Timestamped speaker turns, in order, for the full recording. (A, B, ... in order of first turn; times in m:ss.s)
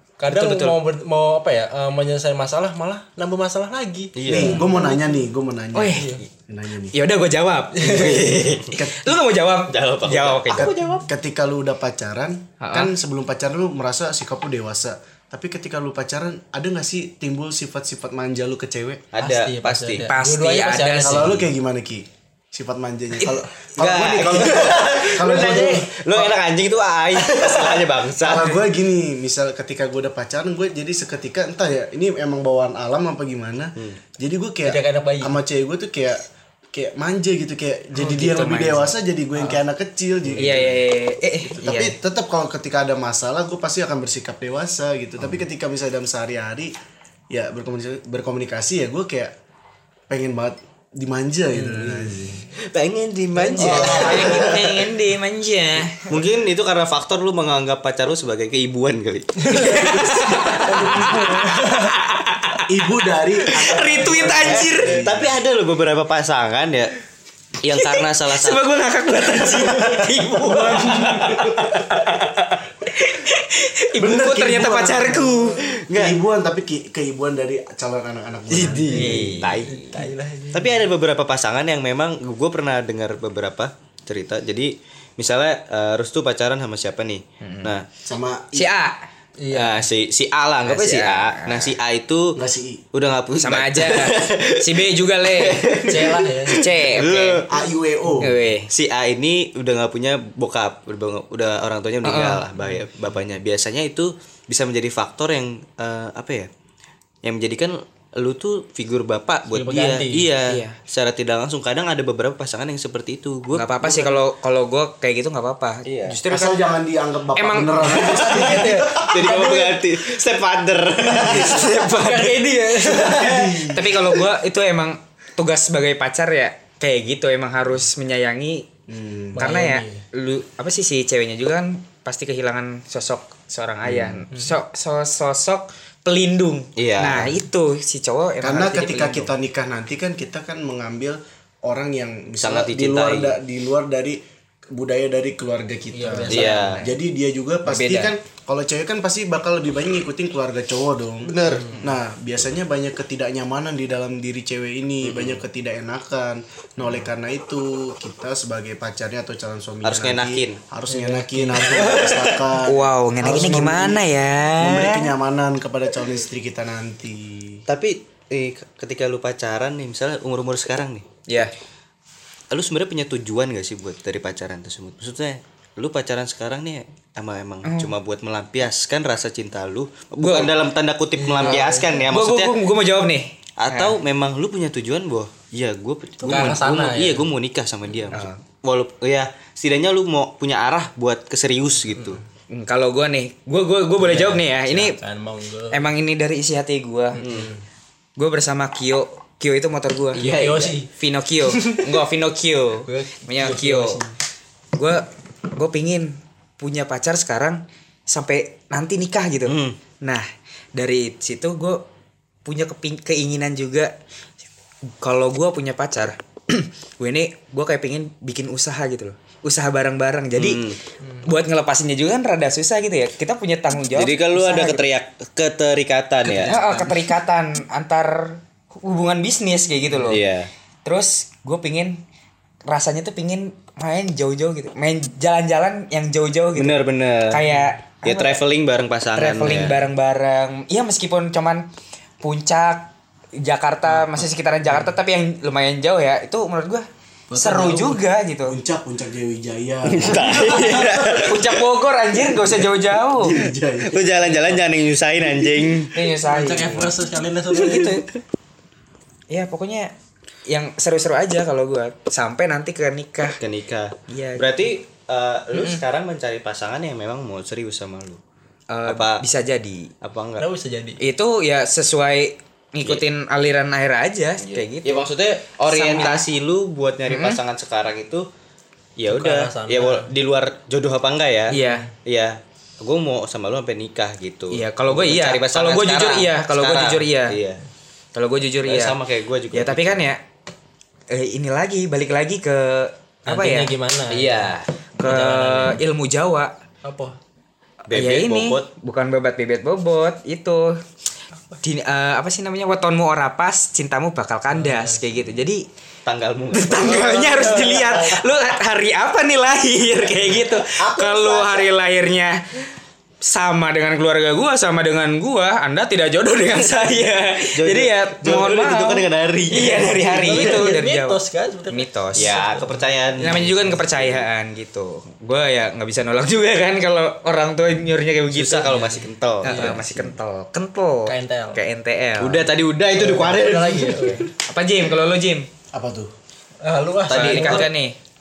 0:00.2-0:05.0 A
0:00.3-0:00.8 B
0:04.2-0:04.6 C
0:04.2-0:07.0 D
0:04.4-0:04.6 B
0:05.7-0:06.2 B
0:05.9-0:06.2 A
0:06.9-0:10.7 B
0:07.8-0:08.3 A
0:07.8-0:08.8 C
0:08.7-0:09.2 D
0:09.7-0:11.1 C
0:10.5-0:19.0 D
0:12.6-0:12.9 B
0:19.1-0:20.1 C
0:19.2-0:21.4 A
0:20.0-0:21.4 B
0:21.0-0:26.3 D
0:23.8-0:28.6 C
0:28.2-0:40.9 D
0:34.6-0:35.4 A
0:37.9-0:38.9 B
0:40.4-0:42.0 B
0:41.4-0:46.7 D
0:47.3-0:49.3 D
0:50.1-0:52.5 D
0:51.5-0:52.2 A
0:52.7-0:54.8 C
0:53.5-0:56.1 B
0:53.5-0:54.0 A
0:53.6-0:54.7 D
0:56.1-1:01.0 C
0:59.4-1:00.0 A
0:59.6-1:02.7 B
1:00.7-1:01.9 A
1:00.7-1:01.3 D
1:02.7-1:05.3 D
1:03.5-1:05.1 B
1:04.3-1:06.9 C
1:07.6-1:08.6 C
1:07.7-1:15.6 B
1:10.4-1:11.9 D
1:14.0-1:19.3 D
1:15.7-1:16.2 C
1:18.5-1:27.9 C
1:18.9-1:19.8 B
1:19.0-1:20.8 A
1:27.4-1:27.8 B
1:28.0-1:28.7 D
1:28.5-1:29.0 B
1:29.4-1:29.8 A
1:29.5-1:32.4 C
1:30.6-1:31.8 B
1:32.4-1:32.8 D
1:32.9-1:37.5 C
1:33.4-1:37.5 B
1:35.9-1:36.6 A
1:37.5-1:38.4 D
1:38.2-1:38.7 B
1:38.7-1:46.5 C
1:42.0-1:42.5 B
1:47.2-1:53.7 C
1:49.5-1:50.3 A
1:50.5-1:50.8 B
1:53.5-1:56.6 B
1:53.8-1:54.2 A
1:55.9-1:56.2 C
1:56.3-1:59.7 D
1:57.4-1:58.3 B
1:57.8-1:59.8 A
1:59.1-2:01.7 C
2:01.2-2:01.7 D
2:01.2-2:02.4 B
2:01.8-2:03.6 A
2:03.1-2:04.0 D
2:03.7-2:08.7 B
2:08.9-2:09.5 D
2:09.4-2:10.0 A
2:09.4-2:19.3 B
2:13.9-2:14.2 C
2:16.8-2:17.4 C
2:18.4-2:24.2 D
2:22.4-2:23.4 C
2:24.7-2:44.1 D
2:25.9-2:26.8 A
2:26.3-2:26.8 C
2:26.4-2:26.9 B
2:27.6-2:28.1 B
2:31.2-2:31.8 C
2:31.5-2:31.8 A
2:35.0-2:35.4 C
2:39.8-2:40.6 C
2:40.9-2:42.2 A
2:42.6-2:45.1 B
2:44.6-2:47.6 D
2:47.7-2:51.1 C
2:51.3-2:51.5 B
2:52.5-3:02.6 C
2:57.6-2:58.0 B
3:00.2-3:00.5 B
3:01.2-3:01.9 A
3:01.4-3:04.0 B
3:03.6-3:12.2 C
3:06.2-3:07.3 A
3:12.5-3:15.0 B
3:14.0-3:15.8 A
3:15.7-3:17.2 B
3:17.2-3:17.6 A
3:17.2-3:17.5 C
3:18.2-3:20.3 B
3:20.2-3:20.8 C
3:20.2-3:20.9 A
3:20.9-3:24.0 B
3:21.5-3:22.0 A
3:22.8-3:24.1 A
3:24.8-3:31.8 B
3:29.5-3:29.8 C
3:32.4-3:33.9 B
3:35.0-3:40.7 B
3:40.4-3:40.8 C
3:41.2-3:44.9 B
3:43.9-3:46.6 C
3:46.3-3:50.2 B
3:46.4-3:47.1 A
3:49.9-3:50.5 C
3:50.8-3:52.0 B
3:52.7-3:58.4 B
3:56.6-3:57.4 C
3:58.0-3:59.8 C
3:59.1-4:01.7 B
4:02.2-4:08.6 B
4:07.3-4:08.0 A
4:08.5-4:11.2 D
4:09.9-4:11.6 C
4:10.7-4:13.4 B
4:13.2-4:14.3 D
4:13.8-4:16.0 C
4:15.9-4:17.0 B
4:16.3-4:18.0 A
4:17.6-4:17.9 B
4:17.6-4:17.9 C
4:19.3-4:19.9 B
4:20.5-4:23.4 B
4:23.3-4:28.2 C
4:24.1-4:24.7 B
4:25.5-4:25.8 B
4:28.7-4:29.9 B
4:28.9-4:29.2 C
4:30.0-4:30.4 C
4:30.4-4:31.0 A
4:31.0-4:35.1 B
4:34.4-4:38.3 C
4:35.7-4:36.3 B
4:37.1-4:37.4 B
4:39.0-4:47.6 C
4:39.1-4:40.1 A
4:41.5-4:41.9 B
4:41.5-4:41.9 A
4:44.5-4:47.4 B
4:48.2-4:49.0 B
4:48.6-4:50.0 C
4:49.5-4:50.2 B
4:51.1-4:53.7 B
4:53.3-4:54.4 A
4:54.1-4:54.7 C
4:55.0-4:55.8 A
4:55.0-4:56.5 B
4:56.8-4:57.2 A
4:57.9-4:58.7 C
4:57.9-5:00.8 B
5:01.6-5:05.6 B
5:04.5-5:05.0 A
5:06.1-5:08.2 C
5:06.5-5:12.6 B
5:07.4-5:07.8 A
5:10.7-5:11.7 C
5:13.2-5:21.2 B
5:17.6-5:20.5 C
5:20.0-5:22.8 A
5:21.7-5:22.5 B
5:22.2-5:24.2 C
5:23.2-5:32.5 B
5:28.3-5:30.2 C
5:28.7-5:29.8 A
5:31.1-5:31.6 A
5:32.2-5:34.3 C
5:33.0-5:34.3 A
5:34.0-5:35.5 B
5:35.7-5:36.1 D
5:36.6-5:37.7 A
5:37.1-5:37.7 C
5:37.1-5:38.0 B